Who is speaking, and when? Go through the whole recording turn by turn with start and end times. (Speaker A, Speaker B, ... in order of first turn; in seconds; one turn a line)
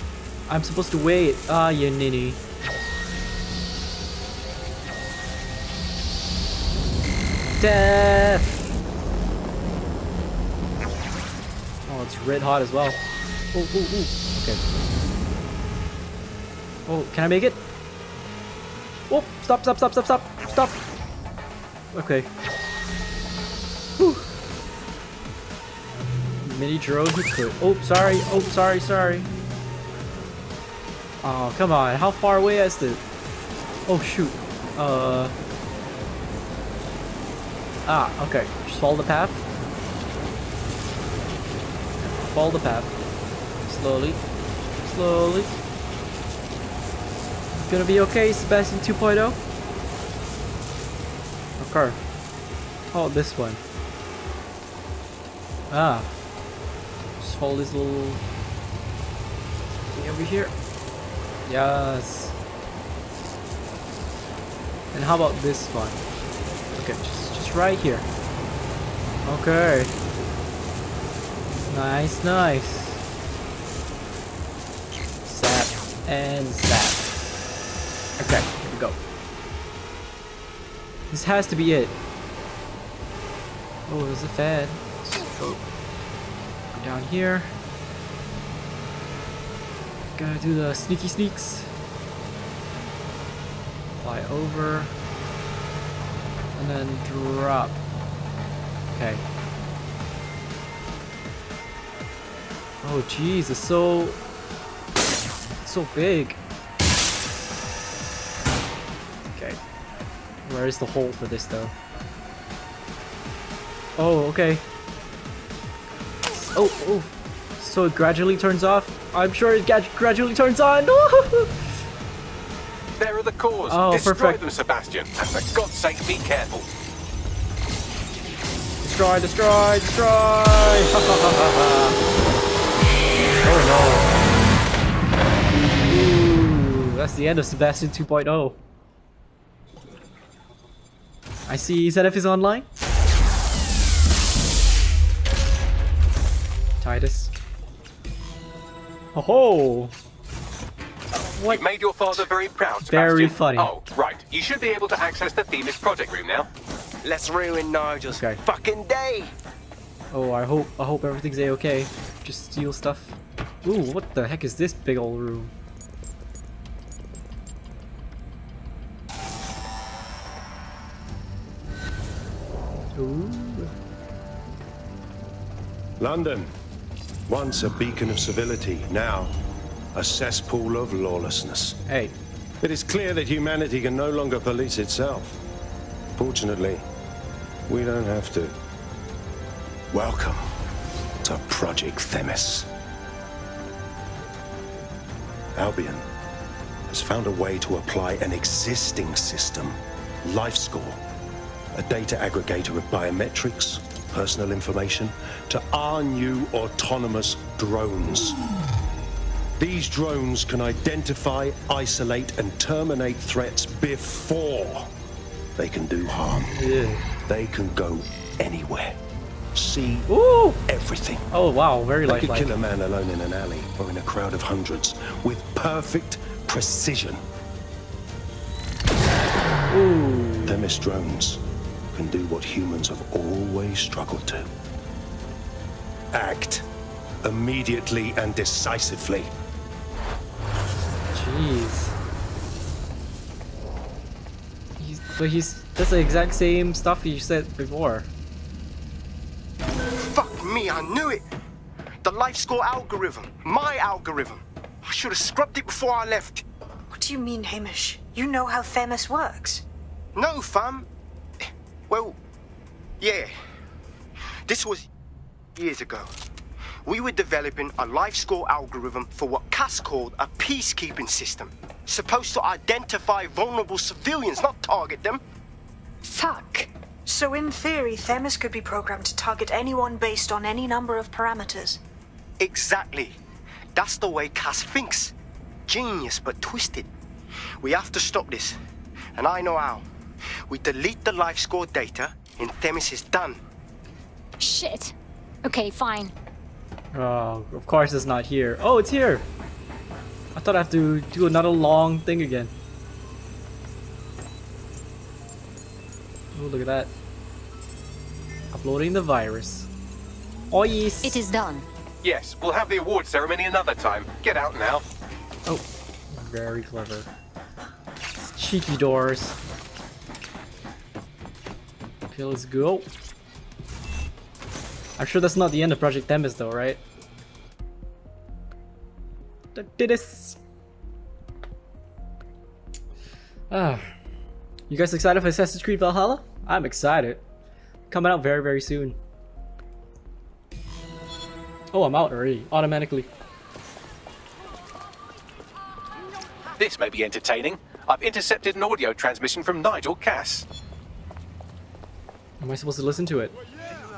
Speaker A: 0.5-2.4
Speaker A: 7.6-8.7
Speaker A: 11.9-14.6
Speaker A: 16.9-17.6
Speaker A: 19.1-20.8
Speaker A: 21.9-22.3
Speaker A: 24.0-24.3
Speaker A: 26.4-29.3
Speaker A: 31.2-33.0
Speaker A: 33.9-35.3
Speaker A: 37.9-39.5
Speaker A: 42.0-42.9
Speaker A: 43.7-44.2
Speaker A: 44.8-45.5
Speaker A: 47.5-49.4
Speaker A: 51.6-52.0
Speaker A: 52.9-53.6
Speaker A: 55.7-56.1
Speaker A: 57.2-58.2
Speaker A: 59.9-60.5
Speaker A: 61.5-62.4
Speaker A: 64.9-66.0
Speaker A: 66.7-68.1
Speaker A: 69.2-69.9
Speaker A: 71.7-73.0
Speaker A: 75.3-77.0
Speaker A: 78.2-79.0
Speaker A: 81.1-82.0
Speaker A: 83.9-85.6
Speaker A: 86.7-87.5
Speaker A: 90.2-91.7
Speaker A: 94.0-94.9
Speaker A: 96.5-97.8
Speaker A: 98.9-99.2
Speaker A: 102.8-104.2
Speaker A: 105.7-106.4
Speaker A: 109.3-109.6
Speaker A: 110.5-111.7
Speaker A: 114.0-114.6
Speaker A: 116.3-121.6
Speaker B: 123.0-126.7
Speaker A: 123.7-124.4
Speaker A: 128.8-132.0
Speaker A: 133.4-134.1
Speaker A: 135.9-138.6
Speaker A: 141.5-142.7
Speaker A: 146.8-147.3
Speaker A: 149.1-149.9
Speaker A: 151.1-152.2
Speaker B: 151.4-156.5
Speaker A: 152.9-153.7
Speaker C: 157.0-159.3
Speaker A: 158.1-158.4
Speaker A: 160.1-165.5
Speaker A: 172.9-173.7
Speaker D: 176.0-176.5
Speaker D: 177.3-179.4
Speaker D: 179.9-181.8
Speaker A: 181.9-182.2
Speaker D: 182.6-185.4
Speaker D: 186.2-186.9
Speaker D: 187.7-188.6
Speaker D: 189.9-190.5
Speaker D: 191.2-192.7
Speaker D: 195.5-196.1
Speaker D: 196.9-201.0
Speaker D: 201.8-208.4
Speaker D: 209.6-214.9
Speaker D: 215.6-216.5
Speaker A: 216.5-217.0
Speaker D: 217.3-219.0
Speaker D: 219.5-220.1
Speaker A: 220.1-220.6
Speaker D: 220.7-221.3
Speaker A: 221.3-222.6
Speaker D: 222.1-227.2
Speaker A: 229.7-230.6
Speaker D: 230.5-231.4
Speaker D: 231.9-234.5
Speaker D: 236.1-236.7
Speaker D: 237.2-239.3
Speaker A: 241.1-241.9
Speaker A: 244.8-248.1
Speaker C: 250.0-251.2
Speaker C: 252.0-256.4
Speaker E: 256.9-259.6
Speaker C: 260.1-260.9
Speaker C: 261.9-262.2
Speaker C: 263.0-263.3
Speaker C: 264.5-264.9
Speaker C: 265.6-266.1
Speaker C: 266.9-275.2
Speaker F: 276.1-276.7
Speaker E: 277.1-281.8
Speaker C: 282.4-283.2
Speaker C: 283.8-285.1
Speaker C: 285.7-286.9
Speaker C: 287.6-288.6
Speaker C: 289.2-289.9
Speaker C: 290.5-293.4
Speaker F: 294.4-296.1
Speaker A: 296.9-299.3
Speaker A: 300.4-302.5
Speaker A: 306.3-306.9
Speaker A: 308.5-309.7
Speaker A: 310.5-311.2
Speaker F: 311.0-311.7
Speaker B: 312.0-314.8
Speaker A: 315.5-317.1
Speaker A: 318.4-319.4
Speaker A: 322.1-322.9
Speaker A: 325.0-326.8
Speaker A: 329.6-330.4
Speaker A: 333.5-333.9
Speaker A: 334.7-337.2
Speaker A: 337.9-339.0
Speaker A: 341.7-343.1
Speaker B: 346.6-350.4
Speaker A: 352.4-353.4